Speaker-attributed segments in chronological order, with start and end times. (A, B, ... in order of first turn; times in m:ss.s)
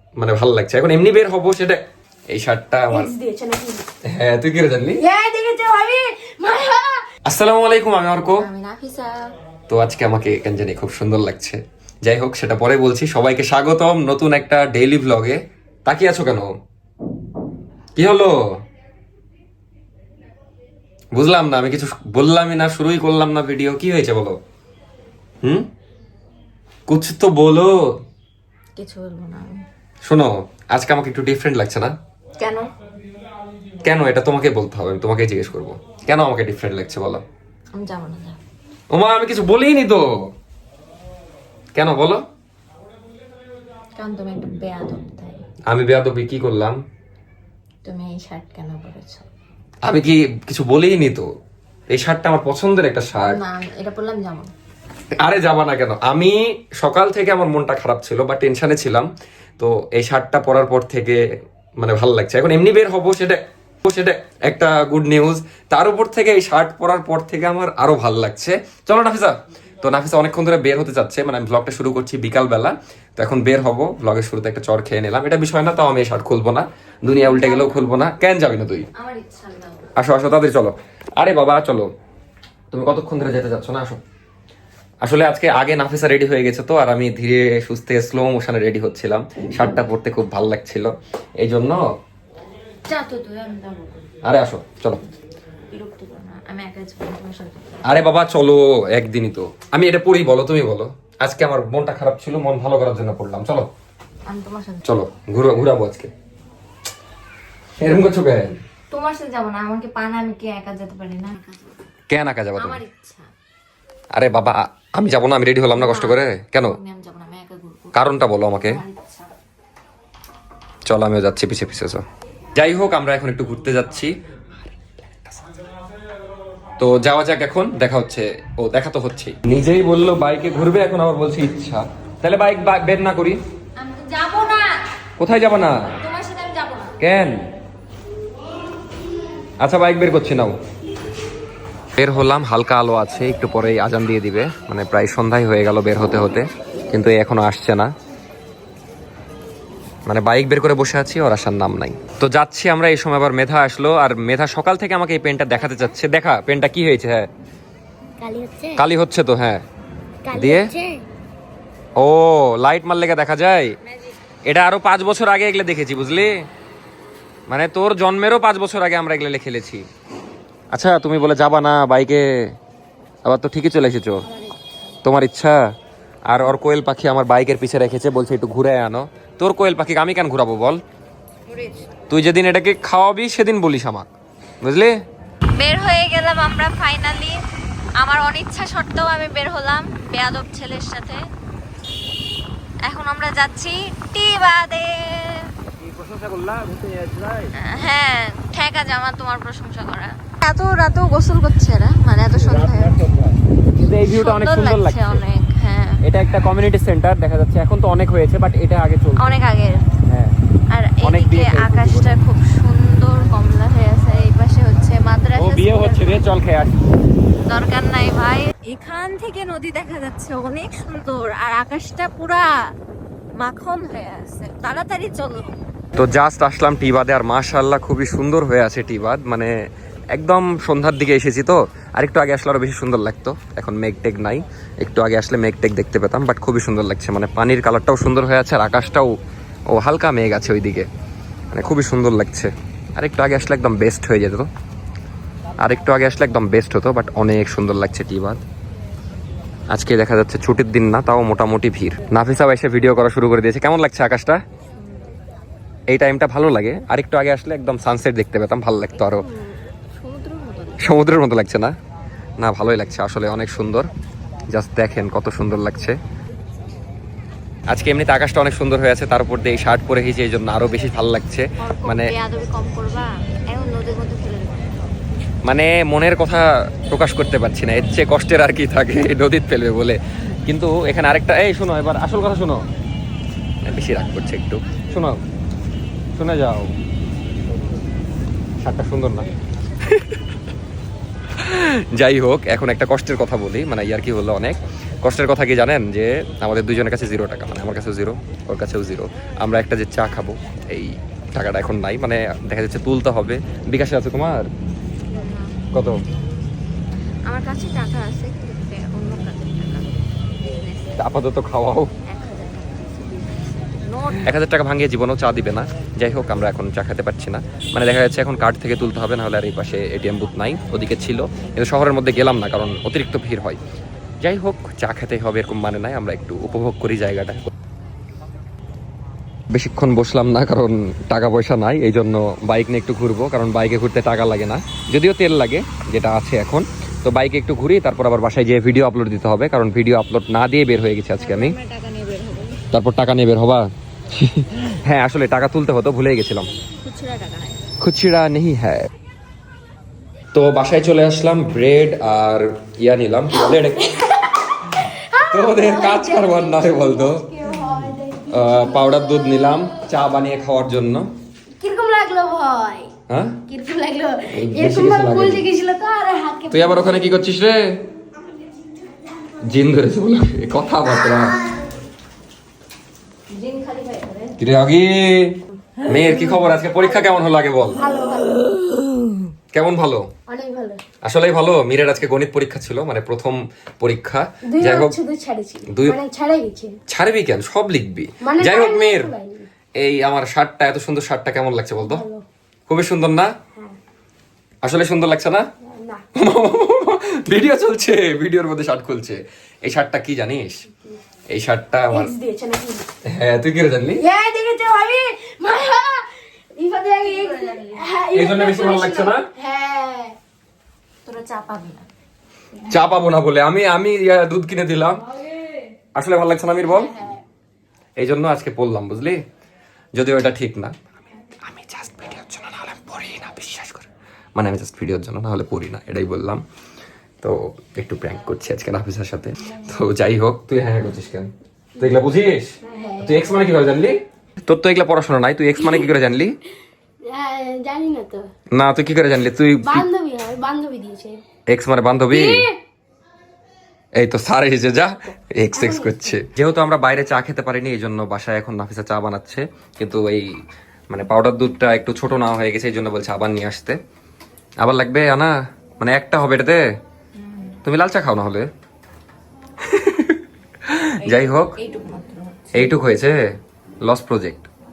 0:00.2-0:01.8 A
0:02.3-0:03.1 A
0:02.9-0:03.8 B
0:04.1-0:05.0 A
0:05.0-0:07.0 B
0:07.3-0:08.5 A
0:08.4-0:09.3 C
0:09.7-0:16.5 A
0:18.0-0:18.4 A
0:21.2-0:24.4 A
0:26.9-0:27.7 A
0:28.8-0:29.6 C
0:30.0-0:31.9 A
0:32.4-0:32.7 C
0:33.8-0:37.2 A
0:37.7-0:38.4 C
0:38.9-0:40.1 A
0:41.8-0:42.2 A
0:44.0-0:45.4 C
0:45.7-0:46.8 A
0:47.8-0:49.3 C
0:49.8-0:51.3 A
0:51.9-0:53.4 A
0:53.2-0:54.5 C
0:55.2-1:01.2 A
1:01.8-1:18.9 A
1:17.2-1:17.8 C
1:19.0-1:19.9 C
1:20.0-1:21.9 A
1:22.7-1:24.0 A
1:25.0-1:31.8 A
1:32.9-1:34.0 C
1:34.2-1:35.0 A
1:35.7-1:38.0 C
1:37.8-1:43.7 A
1:44.3-1:44.9 C
1:44.8-1:46.1 A
1:47.8-1:48.6 A
1:48.9-1:51.7 C
1:52.1-1:52.8 A
1:52.6-1:53.3 C
1:54.2-1:56.8 A
1:55.7-1:59.3 C
1:57.9-1:58.8 A
2:00.9-2:02.0 A
2:02.6-2:05.4 A
2:06.8-2:13.4 A
2:13.8-2:14.8 C
2:15.2-2:16.0 A
2:16.0-2:17.0 C
2:17.0-2:17.5 A
2:19.6-2:20.6 A
2:22.0-2:27.9 A
2:30.1-2:37.3 A
2:38.2-2:38.8 B
2:38.8-2:39.6 A
2:40.3-2:41.0 B
2:40.3-2:40.6 A
2:42.0-2:43.8 A
2:44.5-2:46.4 A
2:47.5-2:49.9 A
2:50.7-2:52.5 A
2:53.2-2:54.2 A
2:54.3-2:54.7 C
2:55.0-2:55.6 A
2:56.3-3:00.8 A
3:01.5-3:01.9 C
3:02.1-3:04.1 A
3:04.6-3:05.0 A
3:05.6-3:07.4 C
3:08.0-3:11.2 C
3:12.8-3:15.5 C
3:15.8-3:17.5 A
3:17.6-3:23.0 C
3:22.4-3:25.2 A
3:24.1-3:26.0 C
3:26.0-3:29.3 A
3:29.2-3:29.9 C
3:30.1-3:30.4 A
3:30.7-3:36.2 C
3:31.0-3:32.2 A
3:35.4-3:36.8 A
3:37.5-3:42.5 C
3:43.4-3:45.5 C
3:46.0-3:49.5 A
3:50.1-3:59.2 A
3:59.7-4:00.9 A
4:01.5-4:04.5 A
4:05.6-4:08.4 A
4:09.7-4:14.4 A
4:15.9-4:19.2 A
4:19.0-4:20.8 C
4:20.8-4:21.7 A
4:22.4-4:23.9 A
4:24.5-4:26.0 A
4:27.7-4:32.2 A
4:31.6-4:34.8 C
4:35.4-4:42.7 A
4:43.6-4:45.2 A
4:46.2-4:46.7 A
4:48.6-4:49.3 A
4:49.9-4:50.2 A
4:51.4-5:04.5 A
5:05.1-5:05.6 C
5:05.7-5:06.0 A
5:07.3-5:11.0 C
5:11.0-5:11.9 A
5:12.1-5:14.3 C
5:14.2-5:23.6 A
5:24.2-5:27.5 A
5:29.5-5:41.6 A
5:41.2-5:42.6 C
5:42.7-5:46.5 A
5:46.8-5:47.6 C
5:47.8-5:48.9 A
5:50.3-5:54.0 A
5:53.5-5:59.8 B
5:55.3-5:57.2 A
5:58.3-6:01.1 A
6:01.6-6:02.9 B
6:03.1-6:03.4 A
6:03.5-6:07.2 B
6:04.3-6:05.5 A
6:06.5-6:07.8 A
6:09.4-6:11.4 A
6:13.3-6:14.4 C
6:14.4-6:17.8 A
6:16.1-6:16.4 C
6:17.8-6:18.5 B
6:19.5-6:20.1 A
6:20.3-6:20.8 B
6:21.0-6:25.0 A
6:24.5-6:26.7 B
6:25.7-6:26.0 A
6:26.9-6:29.1 A
6:28.2-6:29.5 B
6:29.8-6:32.0 A
6:31.8-6:32.2 B
6:32.7-6:33.3 A
6:34.6-6:35.4 A
6:35.6-6:36.0 B
6:36.2-6:40.7 A
6:41.3-6:42.1 A
6:41.9-6:42.8 B
6:43.1-6:44.0 A
6:44.0-6:50.2 B
6:47.0-6:47.8 C
6:48.1-6:49.3 A
6:51.0-6:51.9 C
6:52.7-6:55.0 A
6:56.0-6:56.9 A
6:56.7-6:57.2 B
6:58.0-6:59.2 A
7:00.0-7:00.8 A
7:01.4-7:06.4 A
7:07.2-7:16.4 A
7:11.8-7:12.1 B
7:12.6-7:13.5 B
7:15.6-7:15.9 B
7:17.1-7:18.3 B
7:18.5-7:19.9 A
7:19.6-7:21.2 B
7:21.5-7:22.4 A
7:22.1-7:22.6 B
7:24.0-7:30.4 A
7:25.5-7:26.2 B
7:30.9-7:33.8 A
7:34.6-7:36.6 A
7:37.2-7:37.6 C
7:37.6-7:38.5 A
7:39.6-7:41.6 A
7:41.0-7:42.7 C
7:42.5-7:43.2 A
7:43.8-7:44.5 A